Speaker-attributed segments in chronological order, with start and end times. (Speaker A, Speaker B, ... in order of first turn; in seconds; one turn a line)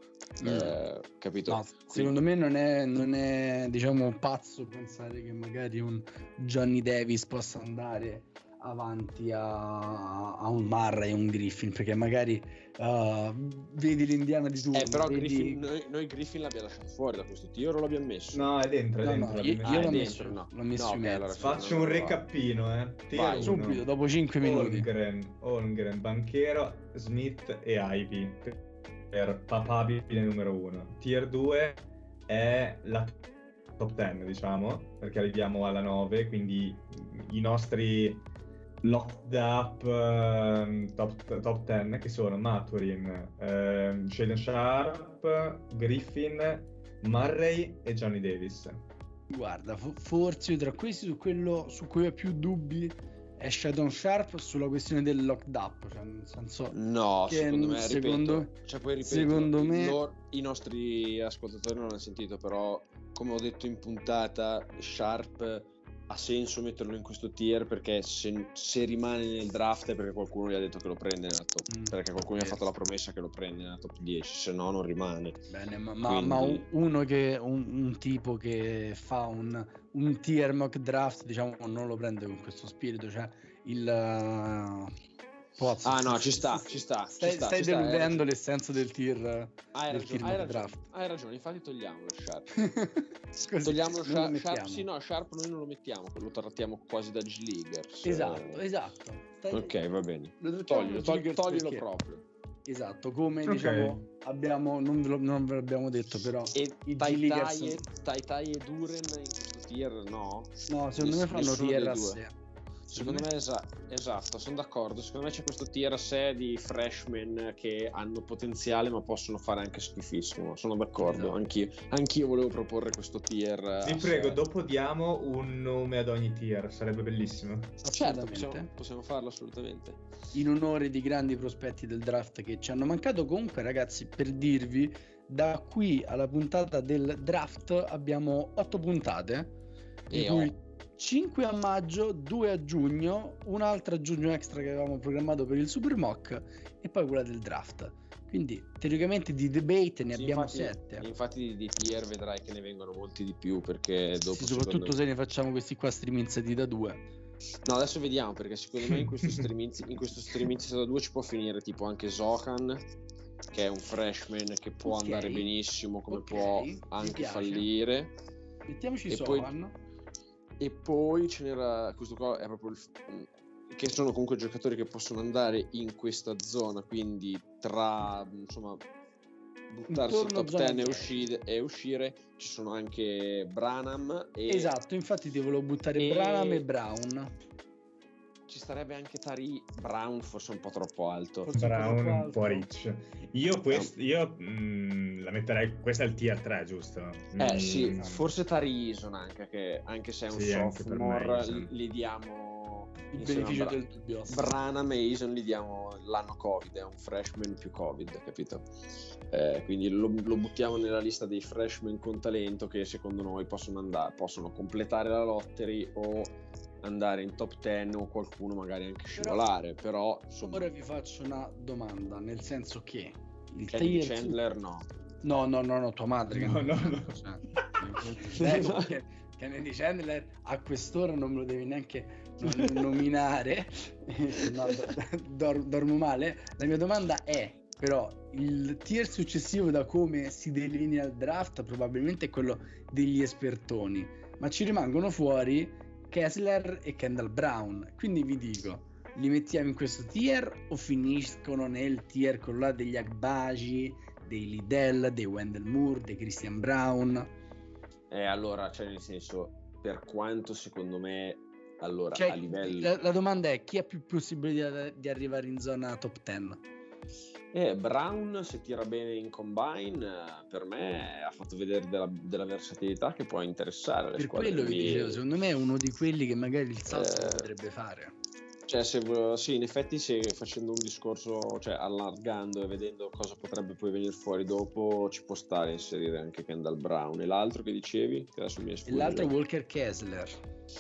Speaker A: 0.4-0.8
Speaker B: 0.4-2.2
Speaker A: 1.5-15.6
Speaker B: 14.7-18.5
Speaker C: 18.3-20.0
Speaker A: 19.0-21.5
Speaker B: 19.6-22.2
Speaker C: 21.4-23.9
Speaker B: 23.1-23.6
Speaker A: 23.4-24.9
Speaker C: 24.4-28.6
Speaker C: 29.1-33.1
Speaker C: 33.8-38.2
Speaker C: 38.8-48.9
Speaker A: 49.3-56.8
Speaker B: 56.7-75.4
Speaker A: 57.3-60.0
Speaker A: 71.7-72.6
Speaker A: 75.5-84.9
Speaker B: 76.0-76.7
Speaker A: 85.6-90.8
Speaker B: 85.8-88.2
Speaker B: 89.7-92.5
Speaker A: 92.5-94.9
Speaker B: 93.6-98.7
Speaker A: 98.0-99.7
Speaker B: 99.5-102.2
Speaker A: 100.4-101.8
Speaker A: 102.7-107.8
Speaker C: 103.5-104.0
Speaker B: 106.5-112.2
Speaker A: 110.7-112.3
Speaker B: 112.9-124.4
Speaker A: 112.9-113.2
Speaker A: 121.0-121.4
Speaker C: 123.8-127.8
Speaker A: 127.8-128.7
Speaker B: 127.9-130.0
Speaker A: 130.3-139.5
Speaker B: 140.1-140.5
Speaker A: 140.1-151.1
Speaker B: 150.1-155.0
Speaker A: 154.3-157.0
Speaker B: 157.6-162.8
Speaker B: 163.5-168.1
Speaker A: 164.8-165.5
Speaker A: 166.1-167.7
Speaker A: 168.7-169.7
Speaker B: 169.1-169.5
Speaker B: 170.6-178.8
Speaker B: 179.7-184.7
Speaker A: 179.9-181.3
Speaker A: 184.5-187.3
Speaker B: 185.9-186.6
Speaker B: 188.5-191.5
Speaker A: 191.4-192.7
Speaker C: 191.5-198.3
Speaker B: 197.4-208.7
Speaker C: 200.3-201.7
Speaker A: 203.1-204.4
Speaker B: 209.3-220.7
Speaker A: 219.2-219.4
Speaker A: 220.5-224.4
Speaker B: 223.7-224.9
Speaker A: 225.2-257.3
Speaker C: 226.3-227.2
Speaker B: 228.2-228.9
Speaker B: 258.1-262.9
Speaker A: 262.1-266.6
Speaker B: 267.5-275.2
Speaker A: 274.2-278.1
Speaker B: 276.9-277.5
Speaker B: 278.7-289.3
Speaker A: 288.9-290.4